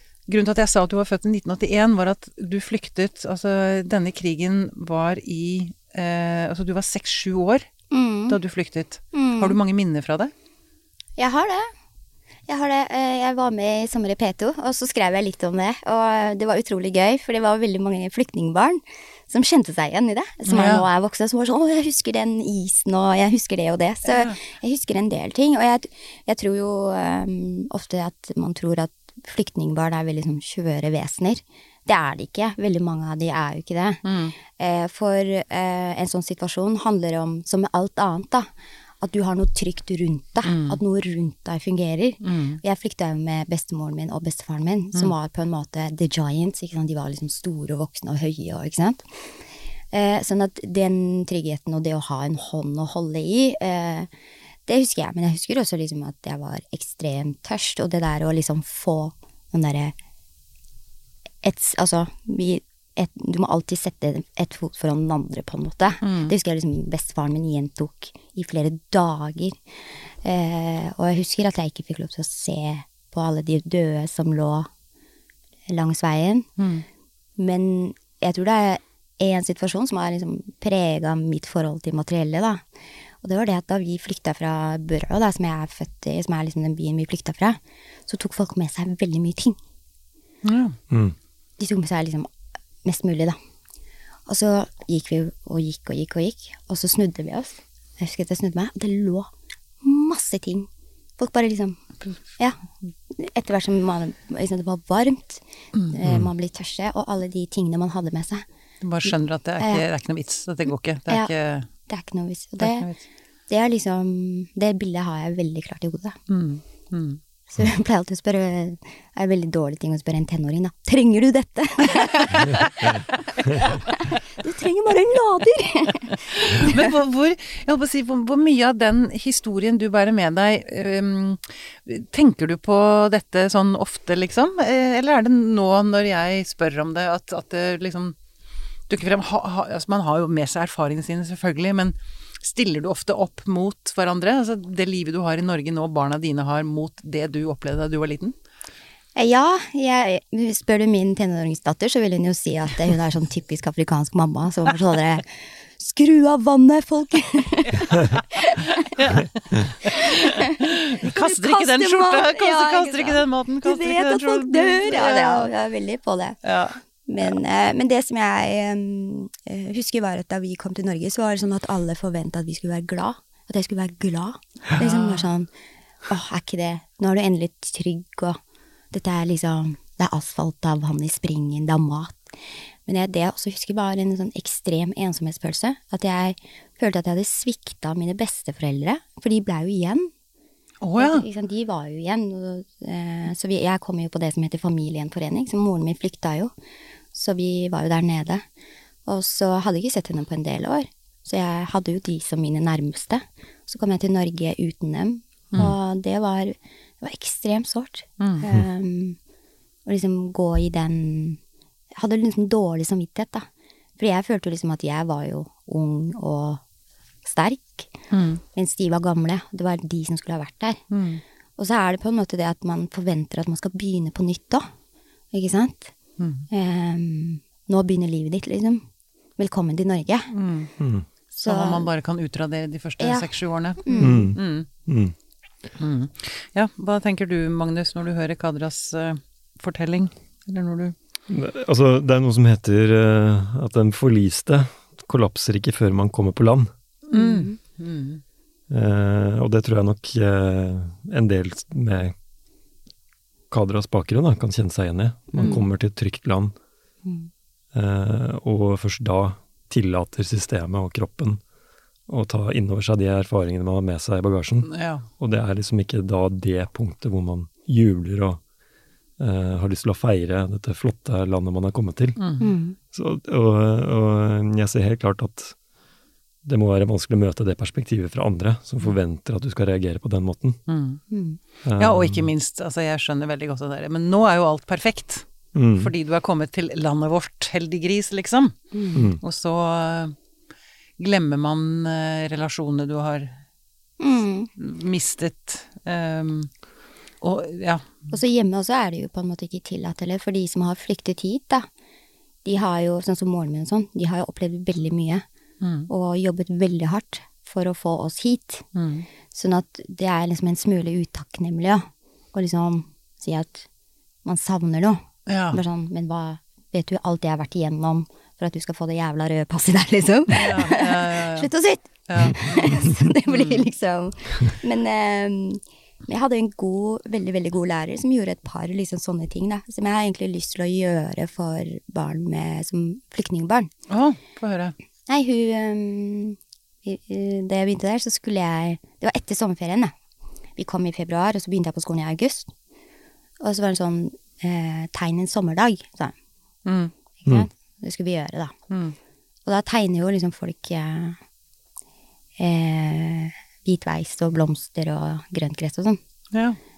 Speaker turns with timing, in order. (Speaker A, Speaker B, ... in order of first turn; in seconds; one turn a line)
Speaker A: 0.3-7.7
Speaker B: 7.9-8.4
Speaker A: 8.3-10.3
Speaker B: 9.1-9.6
Speaker B: 11.2-11.7
Speaker B: 12.5-38.5
Speaker A: 20.5-20.8
Speaker A: 24.1-24.4
Speaker A: 34.0-34.3
Speaker B: 39.0-49.0
Speaker A: 40.4-40.8
Speaker A: 42.2-42.6
Speaker B: 49.9-54.1
Speaker B: 54.7-60.0
Speaker B: 61.4-69.5
Speaker A: 66.0-66.3
Speaker B: 70.2-74.7
Speaker B: 75.7-76.5
Speaker A: 76.6-76.8
Speaker B: 77.4-82.6
Speaker B: 83.2-89.6
Speaker A: 90.4-90.8
Speaker C: 90.9-91.2
Speaker B: 91.6-92.3
Speaker B: 92.8-93.4
Speaker B: 94.3-99.3
Speaker B: 99.8-101.8
Speaker B: 103.1-108.4
Speaker C: 106.0-106.3
Speaker A: 108.8-111.7
Speaker B: 109.6-109.8
Speaker B: 111.9-112.9
Speaker A: 112.6-113.0
Speaker B: 113.5-116.2
Speaker A: 116.3-117.2
Speaker B: 117.5-123.0
Speaker B: 123.6-126.8
Speaker A: 126.3-138.2
Speaker A: 138.9-148.3
Speaker B: 149.2-155.2
Speaker B: 155.8-158.7
Speaker A: 157.9-158.2
Speaker A: 158.8-165.5
Speaker B: 159.8-166.4
Speaker A: 166.4-166.8
Speaker B: 167.1-175.5
Speaker A: 174.8-175.2
Speaker B: 176.1-178.4
Speaker B: 178.9-182.3
Speaker B: 182.9-190.1
Speaker A: 190.8-191.2
Speaker B: 191.0-196.5
Speaker B: 197.1-198.4
Speaker B: 199.1-209.2
Speaker A: 208.2-208.4
Speaker B: 209.8-211.4
Speaker B: 211.9-213.5
Speaker B: 214.0-216.6
Speaker B: 217.2-217.9
Speaker A: 218.1-218.4
Speaker B: 218.5-220.8
Speaker A: 220.9-221.2
Speaker B: 221.6-224.7
Speaker B: 225.3-225.9
Speaker A: 226.2-226.4
Speaker B: 226.5-228.8
Speaker B: 229.4-230.3
Speaker A: 230.3-230.7
Speaker C: 230.8-231.1
Speaker B: 231.3-231.9
Speaker A: 231.4-234.7
Speaker B: 233.0-234.3
Speaker C: 234.0-235.1
Speaker A: 235.8-240.9
Speaker C: 241.3-246.7
Speaker A: 247.1-248.2
Speaker B: 247.1-247.6
Speaker C: 248.7-252.1
Speaker C: 253.5-256.5
Speaker C: 257.7-261.4
Speaker C: 262.1-268.4
Speaker A: 264.7-265.1
Speaker C: 269.2-272.2
Speaker A: 272.2-272.5
Speaker B: 272.4-272.8
Speaker C: 272.9-275.5
Speaker C: 276.4-280.6
Speaker A: 280.7-281.0
Speaker B: 281.1-281.4
Speaker C: 281.6-282.3
Speaker A: 281.8-288.6
Speaker C: 285.5-285.9
Speaker B: 288.7-289.1
Speaker C: 288.9-289.2
Speaker A: 289.2-290.1
Speaker A: 291.0-293.4
Speaker B: 294.0-294.5
Speaker A: 294.6-296.5
Speaker A: 297.2-298.1
Speaker B: 298.1-301.7
Speaker B: 302.4-305.2
Speaker A: 305.6-305.9
Speaker B: 305.9-308.6
Speaker A: 308.7-309.1
Speaker B: 309.3-313.7
Speaker B: 314.2-333.7
Speaker A: 315.3-315.6
Speaker A: 320.3-321.5
Speaker A: 322.1-323.6
Speaker A: 333.9-334.8
Speaker B: 335.1-339.9
Speaker B: 340.6-342.5
Speaker B: 343.4-346.1
Speaker A: 346.6-346.9
Speaker B: 347.2-348.5
Speaker A: 348.7-348.9
Speaker B: 349.4-351.2
Speaker B: 352.4-356.0
Speaker A: 356.3-356.6